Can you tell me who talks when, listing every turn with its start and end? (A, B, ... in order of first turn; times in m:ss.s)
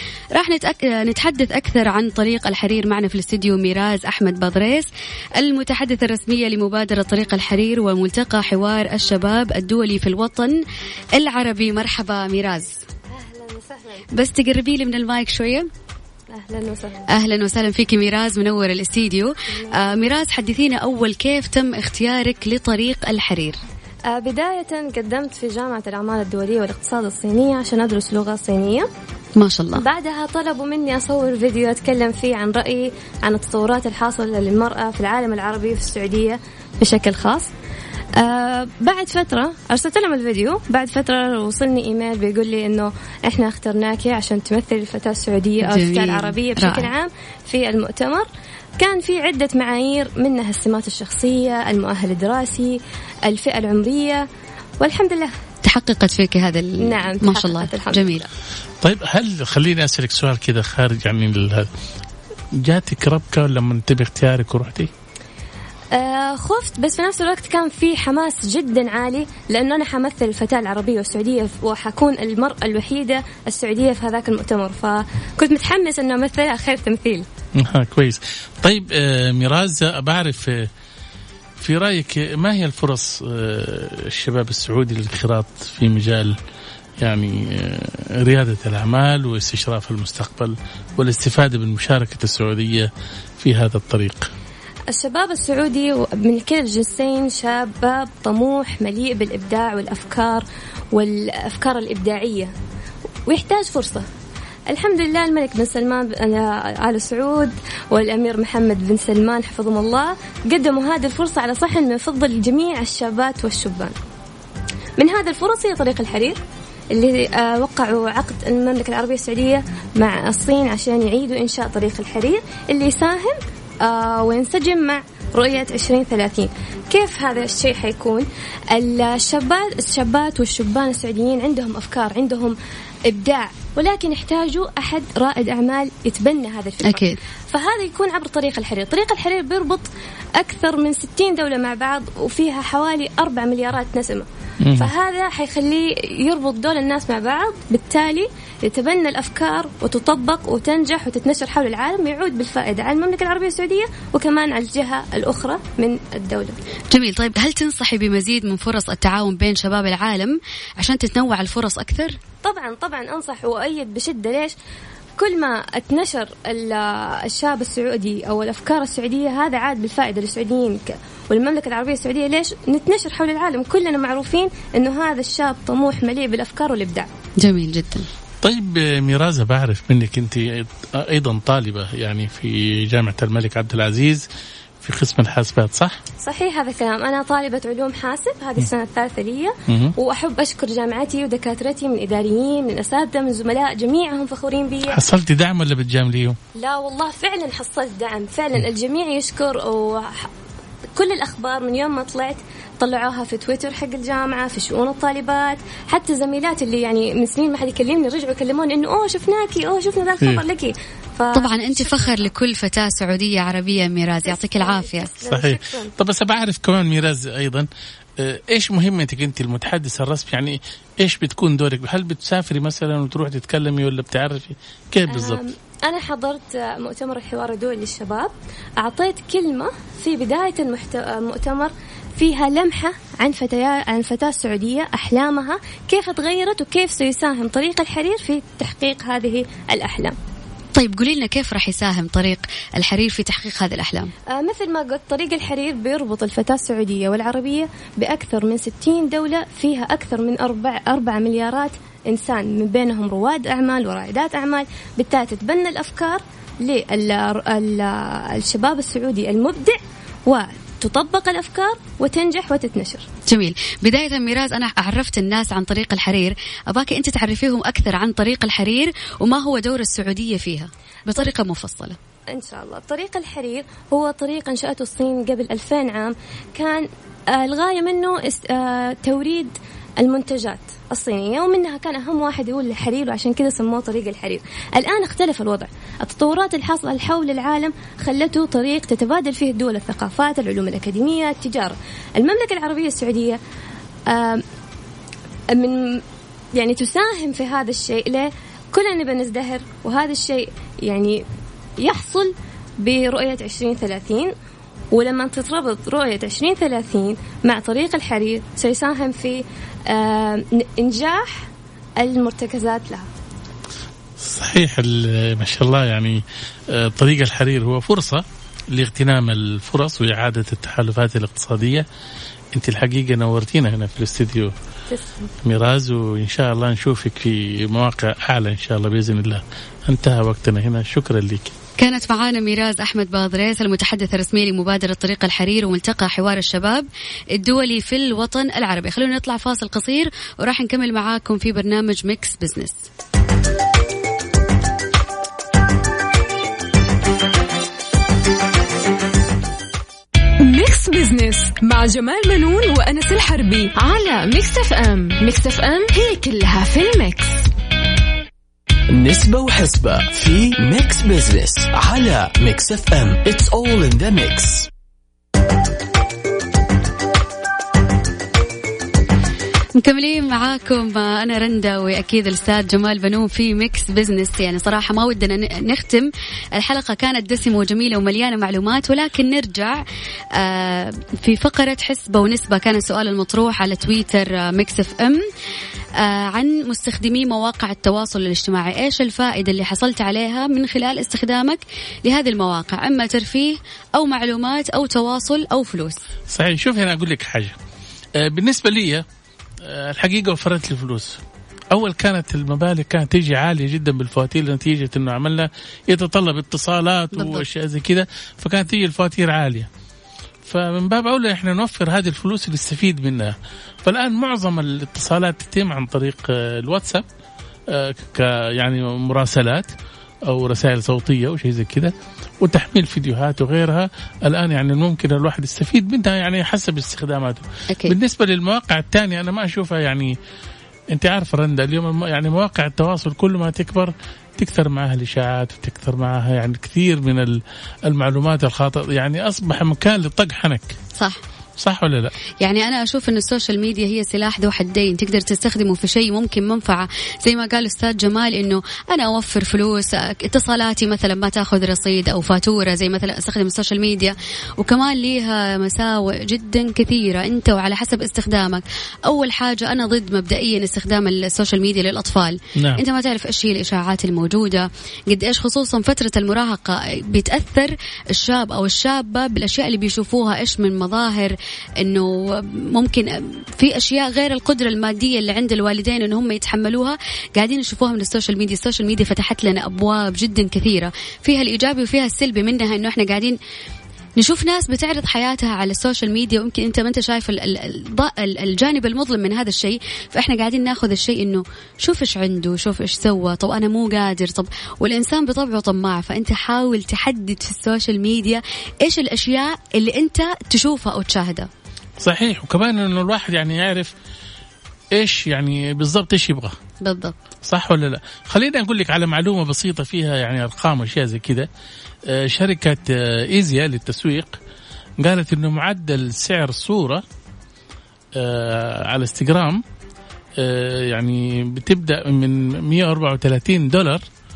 0:00.3-0:10.6 A
0:11.1-0:12.8 A
0:13.1-0:14.0 B
0:14.1-0:15.7 A
0:16.3-0:17.1 B
0:17.1-0:23.6 A
0:19.5-0:19.9 B
0:24.1-0:28.9 B
0:29.4-0:29.8 A
0:29.8-0:37.5 B
0:38.1-0:48.3 B
0:45.6-0:46.9 A
0:48.8-0:54.2 B
0:54.8-0:55.3 B
0:55.6-0:58.3 A
0:56.8-0:58.2 B
0:58.8-1:01.7 C
1:02.5-1:04.9 C
1:05.9-1:17.2 B
1:17.6-1:20.7 C
1:21.6-1:26.4 C
1:27.0-1:34.3 C
1:34.9-1:42.5 B
1:43.2-1:44.0 B
1:44.7-1:53.9 B
1:55.0-1:56.4 B
1:56.9-2:36.6 B
2:16.8-2:17.2 A
2:24.6-2:24.9 C
2:36.9-2:42.2 A
2:42.4-2:44.5 B
2:45.2-2:57.1 B
2:57.4-2:58.1 A
2:58.4-3:04.2 C
3:04.8-3:06.0 C
3:06.2-3:15.0 B
3:09.7-3:09.9 C
3:14.9-3:16.4 C
3:16.5-3:20.3 B
3:20.9-3:32.3 B
3:31.3-3:35.1 A
3:34.2-3:35.9 B
3:35.2-3:45.4 C
3:45.1-4:00.2 B
4:00.7-4:04.1 A
4:04.3-4:23.0 B
4:23.3-4:32.0 A
4:32.3-4:53.4 B
4:54.1-4:54.4 B
4:55.5-5:01.2 B
5:01.8-5:04.3 B
5:04.9-5:13.0 B
5:14.2-5:21.9 C
5:22.5-5:24.5 C
5:24.9-5:25.3 B
5:25.4-5:31.5 C
5:31.8-5:42.9 A
5:50.4-5:57.5 D
5:58.9-6:04.7 E
6:09.8-6:25.2 A
6:26.0-6:36.0 A
6:36.3-6:37.6 C
6:38.2-6:39.0 C
6:39.6-6:49.7 C
6:47.1-6:47.4 A
6:50.4-6:57.0 C
6:57.7-6:59.7 C
7:00.3-7:10.1 C
7:10.9-7:20.8 C
7:21.6-7:22.1 C
7:22.4-8:03.4 A
7:42.6-7:42.8 C
8:04.2-8:21.5 A
8:22.0-8:23.9 C
8:24.9-8:26.6 C
8:26.8-8:27.2 A
8:27.4-8:31.5 C
8:32.1-8:34.4 C
8:35.0-8:37.0 C
8:38.1-8:39.6 C
8:40.4-8:44.0 C